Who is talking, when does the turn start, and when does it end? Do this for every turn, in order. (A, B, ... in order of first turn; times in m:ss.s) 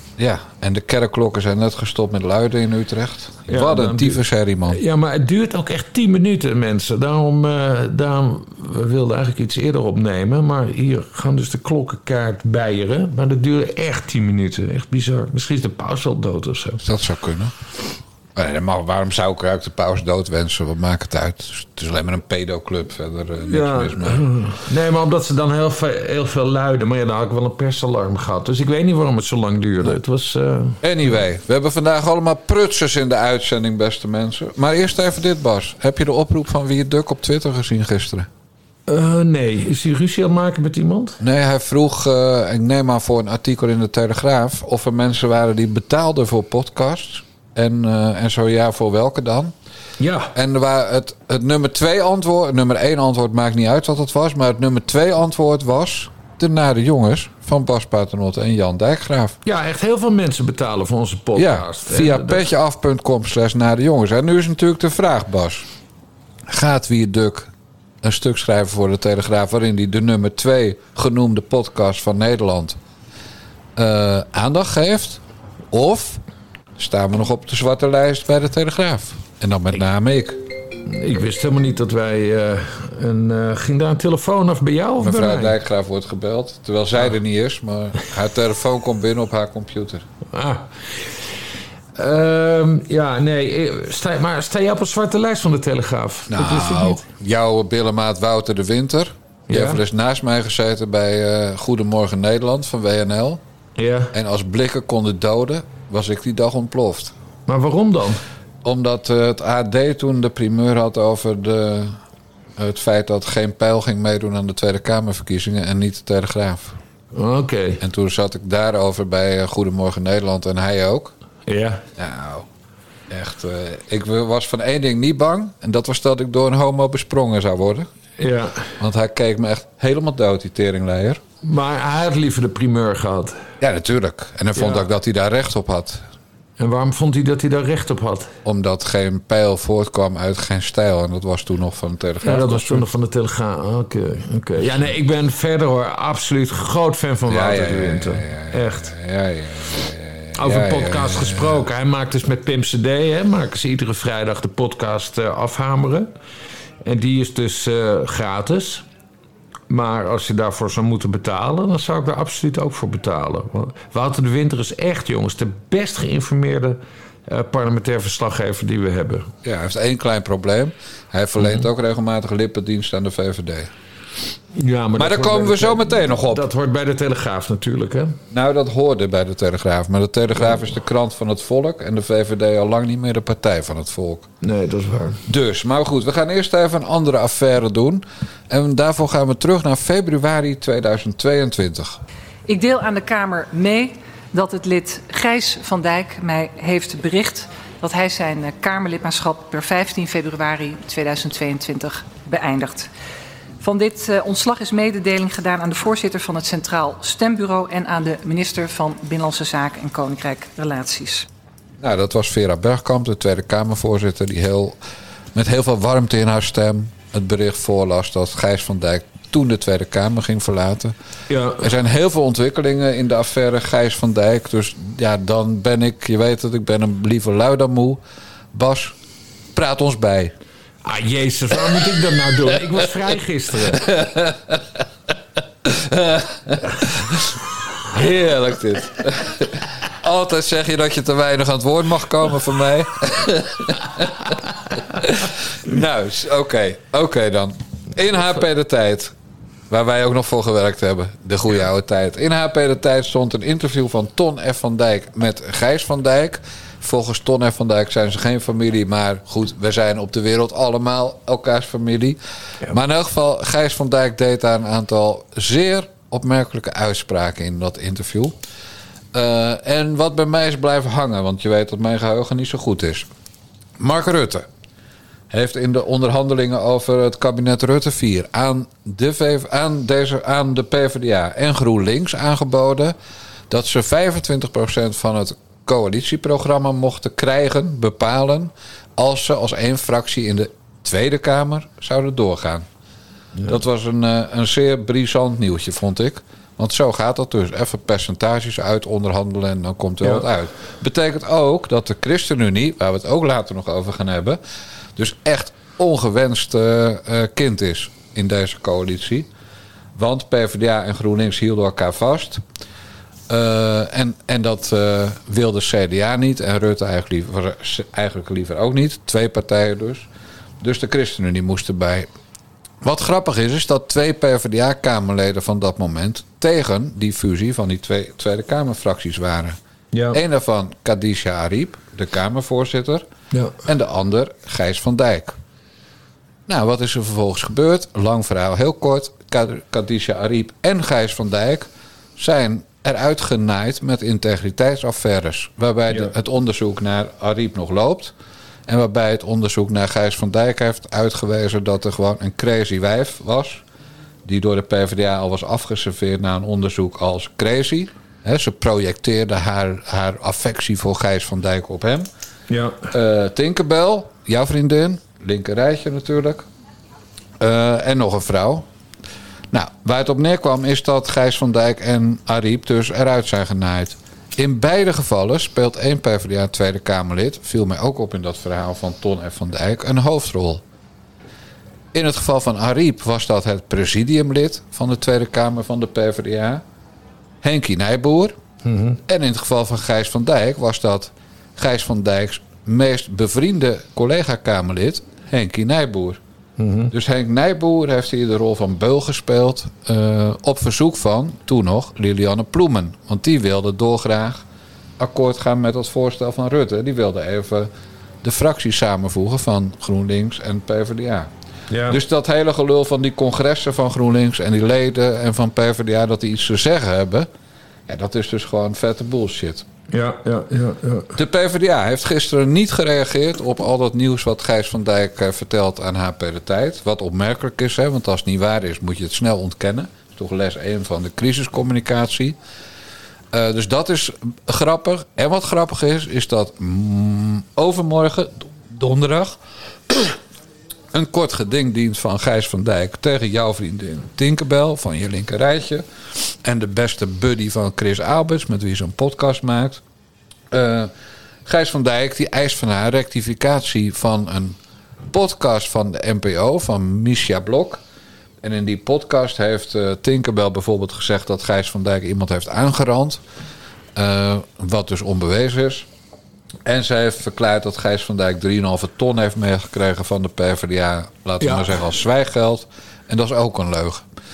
0:00.2-0:04.8 A
0:03.5-0:16.8 B
0:16.8-0:17.6 A
0:18.3-0:24.3 A
0:23.5-0:30.8 B
0:30.8-0:38.3 A
0:38.9-0:41.2 B
0:41.2-0:49.5 A
0:50.0-0:50.3 B
0:50.3-0:59.4 A
0:59.4-1:02.4 B
1:01.3-1:05.7 A
1:06.5-1:07.5 A
1:08.0-1:12.8 A
1:13.8-1:16.2 A
1:16.8-1:20.4 A
1:20.8-1:25.6 B
1:25.0-1:30.0 A
1:30.3-1:31.2 B
1:32.0-1:37.0 B
1:36.3-1:43.4 A
1:39.5-1:39.8 B
1:43.8-1:44.1 B
1:44.1-1:47.1 A
1:47.5-1:48.2 B
1:48.6-1:52.0 A
1:52.6-1:56.8 A
1:57.1-1:57.8 B
1:57.8-2:01.1 A
2:01.5-2:01.8 B
2:02.0-2:02.5 A
2:03.1-2:07.9 A
2:08.2-2:08.8 B
2:08.8-2:11.2 A
2:11.4-2:13.4 B
2:13.6-2:16.0 A
2:14.6-2:14.9 B
2:16.6-2:18.3 B
2:18.4-2:22.8 A
2:22.2-2:28.9 B
2:27.3-2:31.6 A
2:30.3-2:36.1 B
2:36.8-2:38.8 B
2:39.7-2:49.3 B
2:49.4-2:53.7 A
2:54.5-2:58.2 B
2:55.0-2:56.4 A
2:58.3-3:04.3 A
3:04.4-3:05.2 B
3:05.2-3:12.0 A
3:12.5-3:22.9 C
3:23.6-3:31.2 C
3:31.8-3:34.8 A
3:35.3-3:40.9 A
3:41.3-3:41.7 B
3:41.6-3:48.0 A
3:48.5-3:49.0 A
3:49.5-3:50.3 A
3:50.8-3:53.9 B
3:51.8-3:52.6 A
3:53.7-3:54.6 A
3:55.6-3:57.3 A
3:57.9-4:04.3 A
4:04.9-4:09.1 A
4:09.7-4:28.3 A
4:29.1-4:33.1 A
4:33.8-4:34.5 A
4:35.3-4:43.0 A
4:43.5-4:52.7 A
4:53.4-5:04.4 A
5:05.0-5:09.3 A
5:09.9-5:12.4 A
5:13.3-5:20.1 A
5:20.6-5:22.1 A
5:22.8-5:29.6 A
5:29.9-5:30.2 B
5:30.1-5:33.0 A
5:33.3-5:33.6 B
5:33.6-5:35.4 A
5:36.5-5:48.1 A
5:48.7-5:53.6 A
5:54.2-6:02.1 A
6:02.5-6:02.9 B
6:02.9-6:06.5 A
6:07.4-6:08.7 A
6:09.5-6:20.6 A
6:21.9-6:26.6 A
6:27.4-6:28.4 A
6:28.6-6:29.0 B
6:29.0-6:36.2 A
6:36.6-6:36.9 B
6:36.9-6:44.4 A
6:45.0-6:47.7 A
6:48.2-6:51.3 A
6:51.7-6:52.0 B
6:51.9-6:57.3 A
6:57.9-6:59.7 A
6:59.9-7:01.1 B
7:01.1-7:12.4 A
7:13.3-7:19.4 A
7:19.9-7:20.2 A
7:20.9-7:29.8 A
7:30.5-7:30.9 A
7:31.4-7:34.6 A
7:35.1-7:37.8 A
7:38.4-7:43.2 A
7:43.9-7:45.9 A
7:46.6-7:54.0 A
7:51.4-7:51.7 B